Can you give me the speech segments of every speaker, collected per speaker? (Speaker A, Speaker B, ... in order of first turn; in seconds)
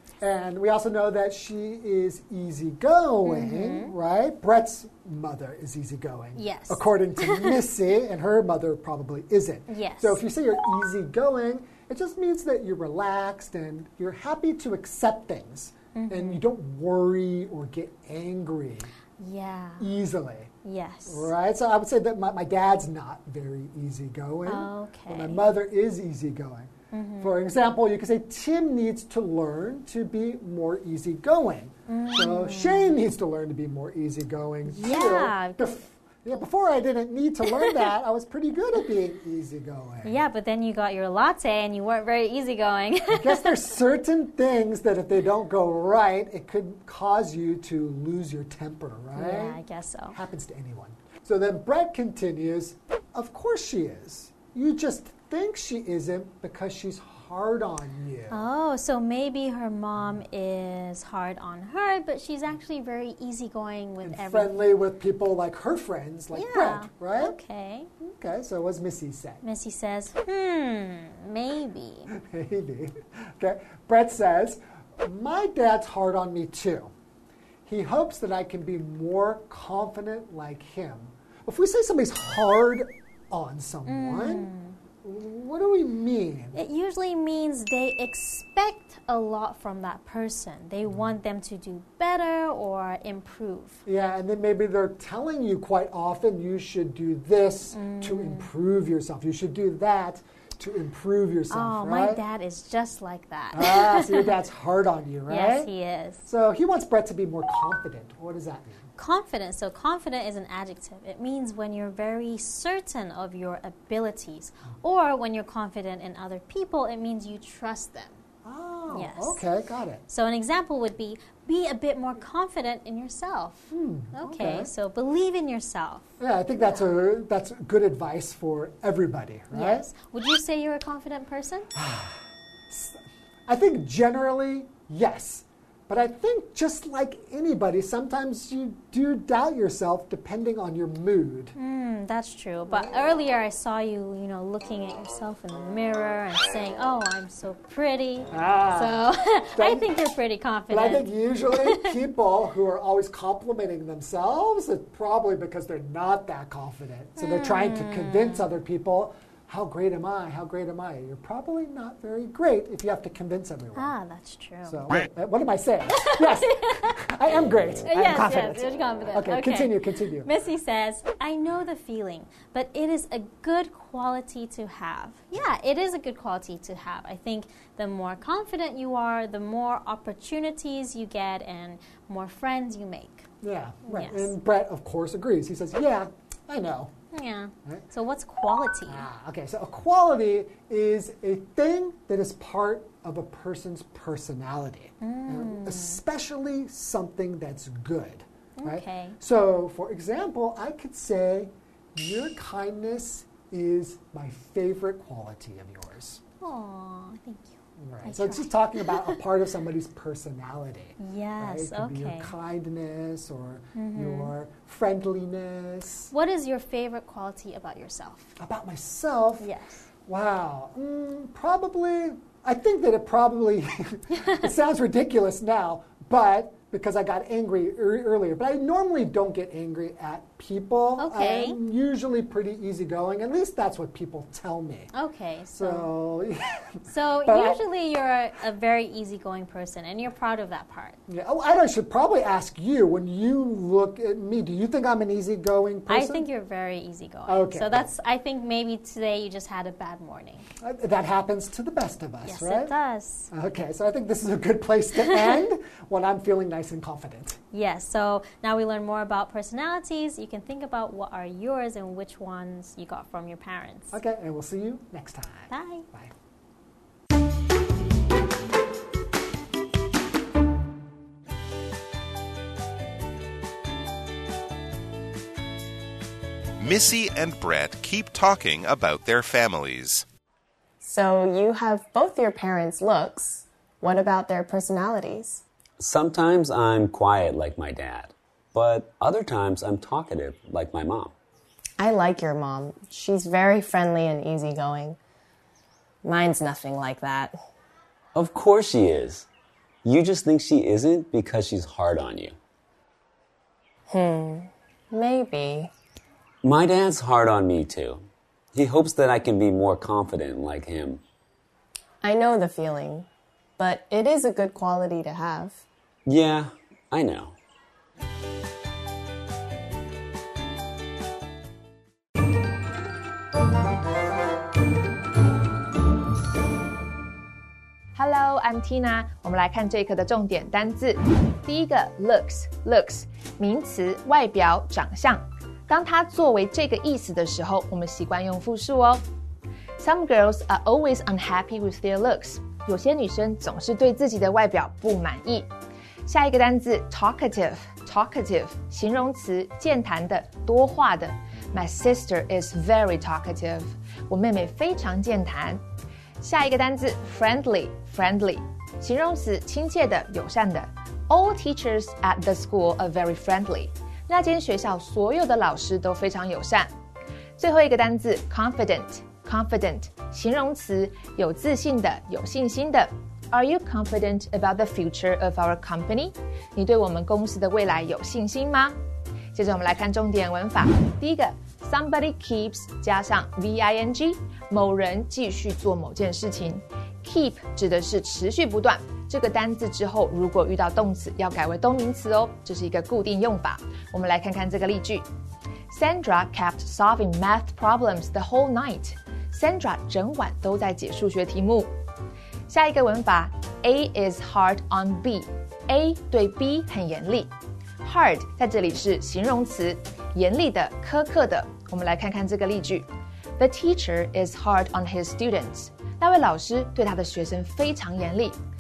Speaker A: 0.2-18.9, 19.8-20.5, 21.1-40.2, 43.1-49.6, 50.1-58.5, 64.0-67.4, 68.0-69.4, 72.1-76.9, 77.7-84.5, 85.0-86.6, 93.9-102.2, 103.5-105.7, 106.2-108.9, 118.4-120.0, 123.7-124.7, 126.2-129.9, 131.8-132.2, 132.7-141.6, 148.3-149.9, 150.7-164.0, 164.7-170.3, 183.4-186.9, 188.9-206.2, 207.8-216.1, 218.4-219.5, 220.1-234.9, 235.5-237.6, 241.1-246.3, 247.3-247.9, 250.6-252.7, 253.3-257.4, 263.9-266.1
Speaker B: 3.2-3.9, 6.4-7.6, 9.7-10.2, 15.9-16.4, 19.2-19.9, 20.6-21.3, 24.5-25.4, 26.9-27.4, 31.9-33.0, 34.7-35.8, 37.5-37.9, 40.0-43.7, 49.1-50.2, 58.3-64.6, 66.3-67.9, 69.4-72.1, 83.9-84.8, 86.5-93.8, 97.7-98.5, 101.5-104.3, 105.3-106.2, 109.0-118.2, 118.9-119.4, 120.1-126.1, 129.5-131.7, 141.6-151.9, 157.2-158.5, 163.8-164.9, 165.9-166.9, 167.8-183.3, 183.8-184.3, 187.1-189.1, 195.0-196.0, 198.6-199.2, 206.4-209.2, 211.0-212.3, 213.8-214.3, 216.1-218.3, 219.4-219.9, 231.0-231.6, 234.9-235.9, 236.9-241.0, 245.9-250.5, 252.2-253.3, 255.0-255.4, 257.5-264.0, 265.5-265.9
Speaker C: 276.6-280.1
Speaker D: 280.8-285.4, 291.8-295.0, 296.0-297.4, 303.9-305.7, 312.0-313.1, 313.6-315.6
Speaker E: 285.8-291.1, 298.1-299.3, 299.9-302.4, 306.4-311.0, 316.1-317.4
Speaker F: 328.0-339.0, 339.8-345.5, 346.1-355.6, 356.2-366.7, 367.4-378.8, 379.3-395.1, 395.7-401.7, 402.5-407.3, 407.8-412.9, 413.4-418.4